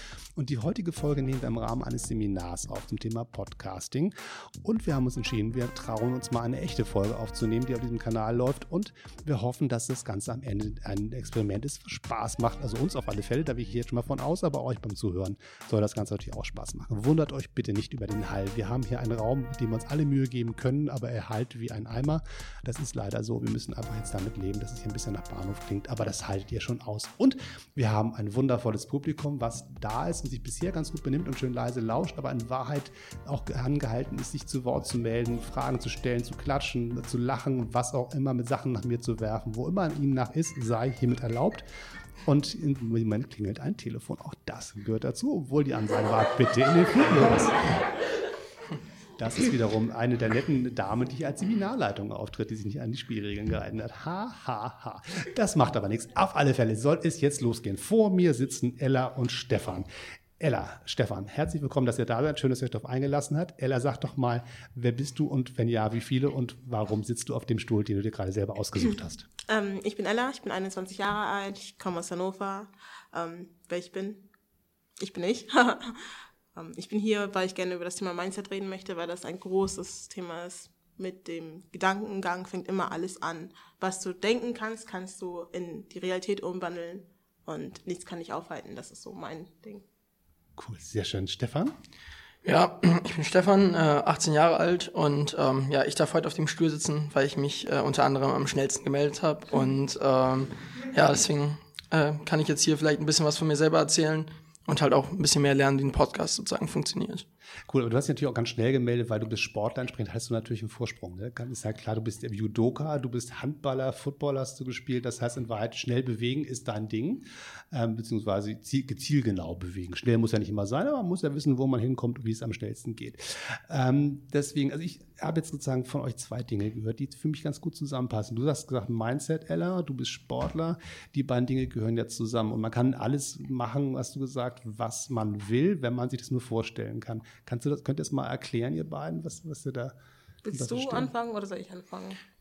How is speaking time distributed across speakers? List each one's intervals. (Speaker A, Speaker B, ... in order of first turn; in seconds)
Speaker A: 0.3-41.7, 42.2-47.9, 49.2-69.3, 90.5-91.7, 107.7-140.0, 140.5-141.1
Speaker B: 69.5-74.2, 75.0-89.8, 140.4-142.2
Speaker C: 92.4-107.2